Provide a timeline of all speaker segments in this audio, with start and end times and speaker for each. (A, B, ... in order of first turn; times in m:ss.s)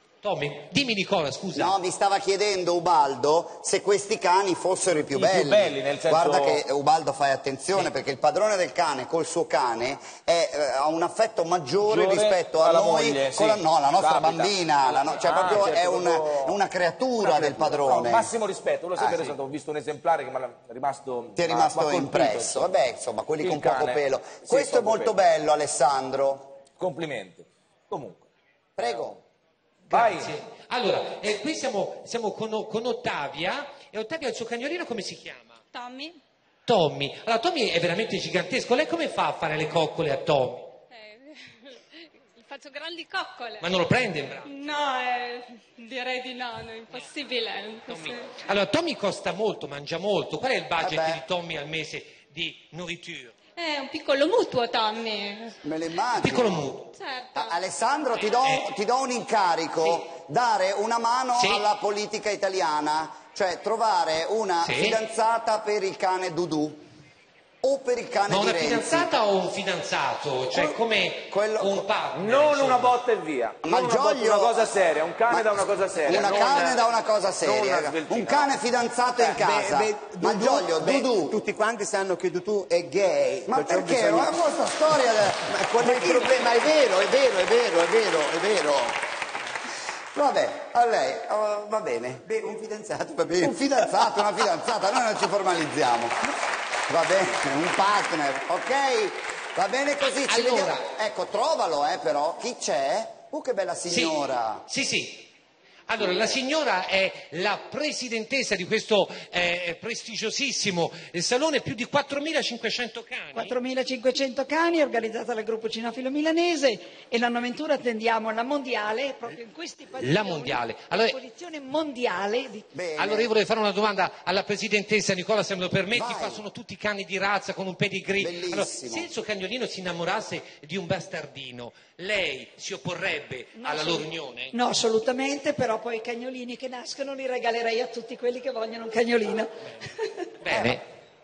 0:00.2-0:01.8 A
0:01.6-0:18.3 B
0:05.0-0:06.6 C
0:11.8-0:16.6 C
0:17.2-0:22.7 C
0:19.0-0:19.4 B
0:21.4-0:26.6 B
0:23.4-0:25.2 C
0:26.8-0:28.3 C
0:28.8-0:29.2 B
0:28.8-0:29.2 C
0:29.8-0:30.3 C
0:29.9-0:35.6 A
0:35.7-0:36.2 D
0:36.7-0:40.7 A
0:40.9-0:43.7 D
0:43.6-0:44.5 A
0:44.4-0:48.3 D
0:47.9-0:53.3 A
0:50.8-0:51.2 B
0:53.6-0:55.6 D
0:55.6-0:56.7 B
0:56.2-0:57.0 A
0:57.0-0:57.6 D
0:57.3-1:06.8 B
1:01.3-1:01.6 A
1:04.6-1:05.0 A
1:07.6-1:09.1 B
1:08.3-1:13.0 A
1:10.5-1:10.8 B
1:11.3-1:11.9 B
1:12.1-1:16.8 C
1:13.6-1:14.7 B
1:15.3-1:21.4 B
1:17.4-1:18.6 C
1:19.2-1:24.4 E
1:23.4-1:26.6 B
1:25.1-1:29.0 E
1:30.1-1:36.2 B
1:32.8-1:33.7 E
1:36.9-1:44.7 B
1:40.2-1:40.9 A
1:43.9-1:45.3 A
1:45.9-1:53.6 A
1:53.4-2:02.7 F
2:00.0-2:01.2 A
2:02.7-2:03.3 B
2:03.0-2:14.6 A
2:05.9-2:06.4 B
2:08.2-2:09.1 B
2:13.6-2:20.3 F
2:20.4-2:20.8 A
2:20.5-2:20.8 B